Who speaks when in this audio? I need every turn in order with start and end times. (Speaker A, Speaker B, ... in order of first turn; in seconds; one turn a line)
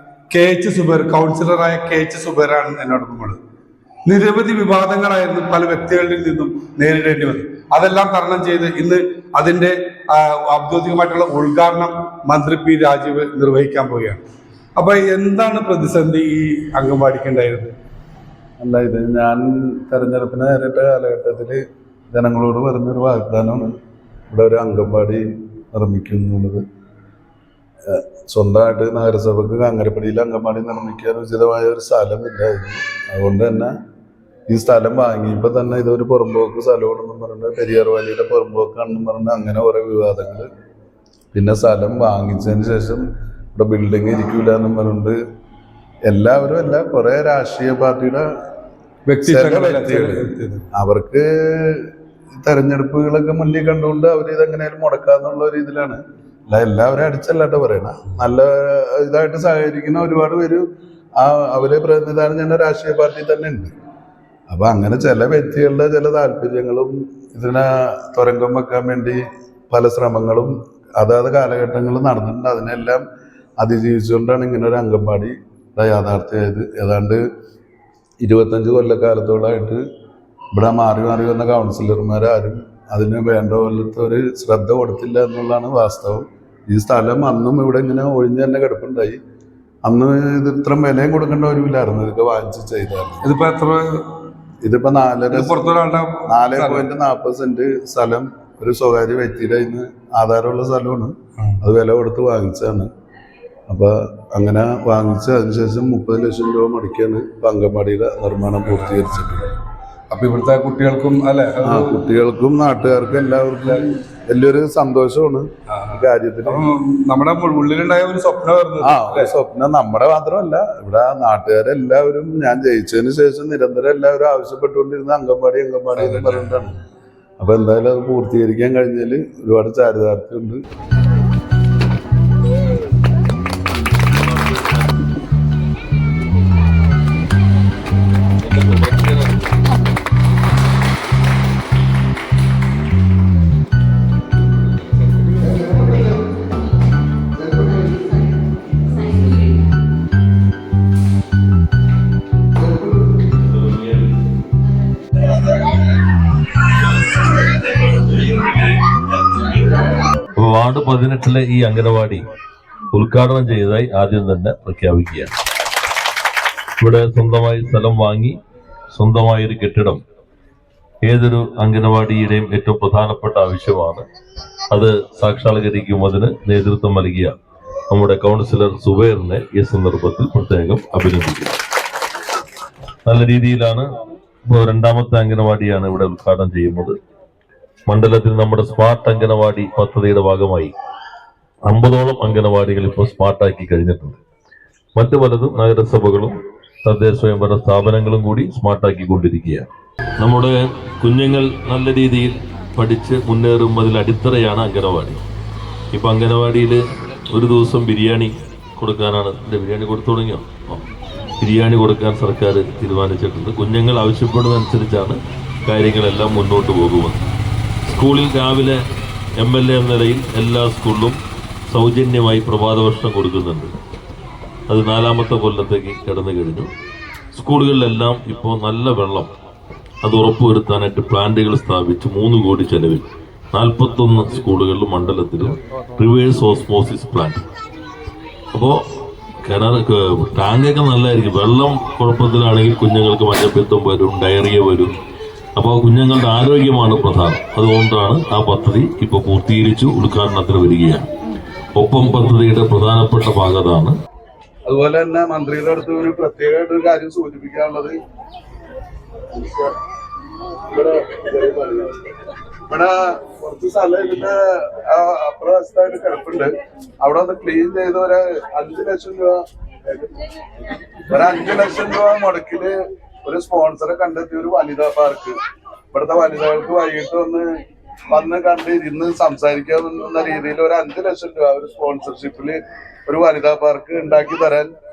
Speaker A: 0.3-3.4
Speaker A: 4.0-14.2
Speaker A: 14.8-17.7
Speaker B: 18.6-23.7
Speaker B: 24.3-26.6
Speaker B: 27.9-33.7
Speaker B: 34.5-40.5
Speaker B: 41.3-45.2
Speaker B: 46.0-48.3
Speaker A: 49.0-50.6
Speaker B: 49.3-60.6
Speaker B: 61.2-63.7
Speaker B: 64.5-73.0
Speaker B: 73.6-77.2
Speaker B: 78.2-79.8
Speaker B: 80.5-89.2
Speaker B: 89.8-93.2
Speaker A: 93.2-94.1
Speaker B: 94.6-95.6
Speaker A: 95.3-96.8
Speaker B: 96.3-102.9
Speaker B: 103.7-109.5
Speaker A: 110.1-112.0
Speaker B: 111.6-116.6
Speaker A: 115.7-119.3
Speaker B: 118.8-126.7
Speaker A: 126.0-126.7
Speaker B: 127.4-130.6
Speaker C: 138.6-139.2
Speaker C: 153.4-154.1
Speaker C: 157.0-159.8
Speaker C: 160.3-162.2
Speaker C: 162.9-165.3
Speaker C: 166.8-168.4
Speaker C: 168.9-170.0
Speaker C: 171.1-174.1
Speaker C: 174.7-177.3
Speaker C: 177.9-181.6
Speaker C: 183.1-183.9
Speaker C: 184.5-187.0
Speaker C: 187.9-190.7
Speaker C: 191.7-194.2
Speaker C: 194.9-199.7
Speaker C: 200.2-205.2
Speaker C: 205.9-206.8
Speaker C: 207.3-210.8
Speaker C: 211.4-217.2
Speaker C: 217.9-218.8
Speaker C: 219.4-223.8
Speaker C: 224.7-226.7
Speaker C: 227.3-229.3
Speaker C: 230.0-237.4
Speaker C: 238.5-238.8
Speaker C: 239.4-244.9
Speaker C: 245.6-251.1
Speaker C: 251.8-253.9
Speaker B: 254.7-257.9
Speaker B: 259.3-259.7
Speaker B: 260.7-262.0
Speaker B: 262.7-269.4
Speaker B: 271.1-275.4
Speaker B: 275.9-277.5
Speaker B: 278.1-284.7